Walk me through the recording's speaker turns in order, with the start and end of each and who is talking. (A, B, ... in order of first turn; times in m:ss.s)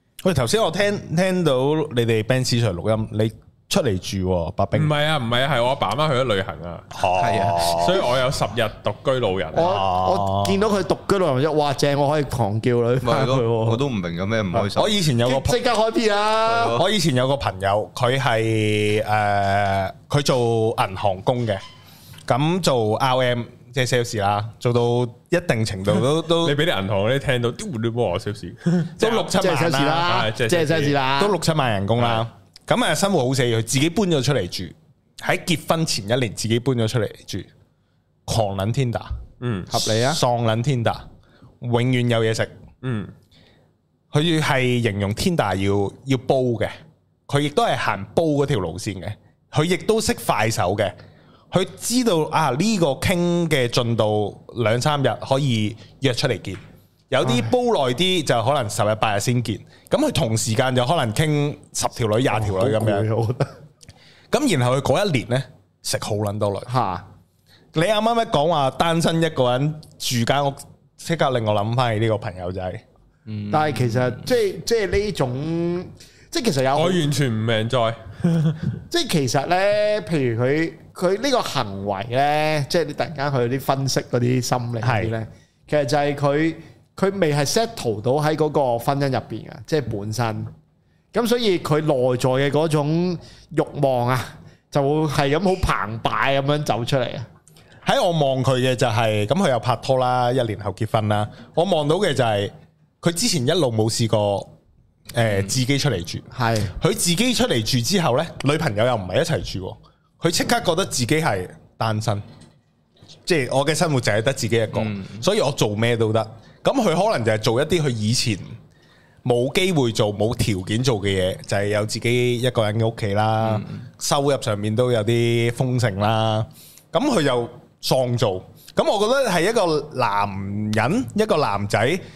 0:00.2-0:04.9 A
0:04.7-0:06.9 B
0:06.9-0:08.0 A
0:07.1-0:07.7 C
0:07.7-0:09.7 B
0:09.5-0:13.8 D
0:09.6-0:10.6 A
0:13.0-0:15.0 C
0:14.7-0:15.6 A
0:15.2-0:16.8 D
0:16.4-0:16.9 C
0:16.7-0:21.6 A
0:22.3-0:26.6 A
0:26.3-0:29.3 B
0:29.0-0:30.1 A
0:29.3-0:31.4 D
0:30.0-0:31.0 B
0:31.2-0:37.5 A
0:38.2-0:39.1 A
0:39.4-0:39.7 B
0:39.7-0:40.2 D
0:40.1-0:41.0 A
0:41.6-0:42.5 A
0:42.8-0:43.1 B
0:44.1-0:46.7 A
0:47.3-0:50.9 A
0:51.5-1:03.0 A
0:57.2-0:57.5 D
1:02.3-1:03.5 D
1:04.3-1:06.7 A
1:06.7-1:07.0 D
1:07.7-1:12.8 A
1:13.3-1:14.3 C
1:13.5-1:17.1 D
1:16.7-1:18.6 B
1:18.9-1:30.5 D
1:24.8-1:25.1 A
1:31.1-1:37.3 D
1:37.8-1:44.5 A
1:45.1-1:46.2 A
1:46.3-1:46.7 D
1:46.8-1:52.2 A
1:53.2-1:58.5 A
1:54.7-1:55.2 C
1:59.2-2:12.0 A
2:03.4-2:03.8 C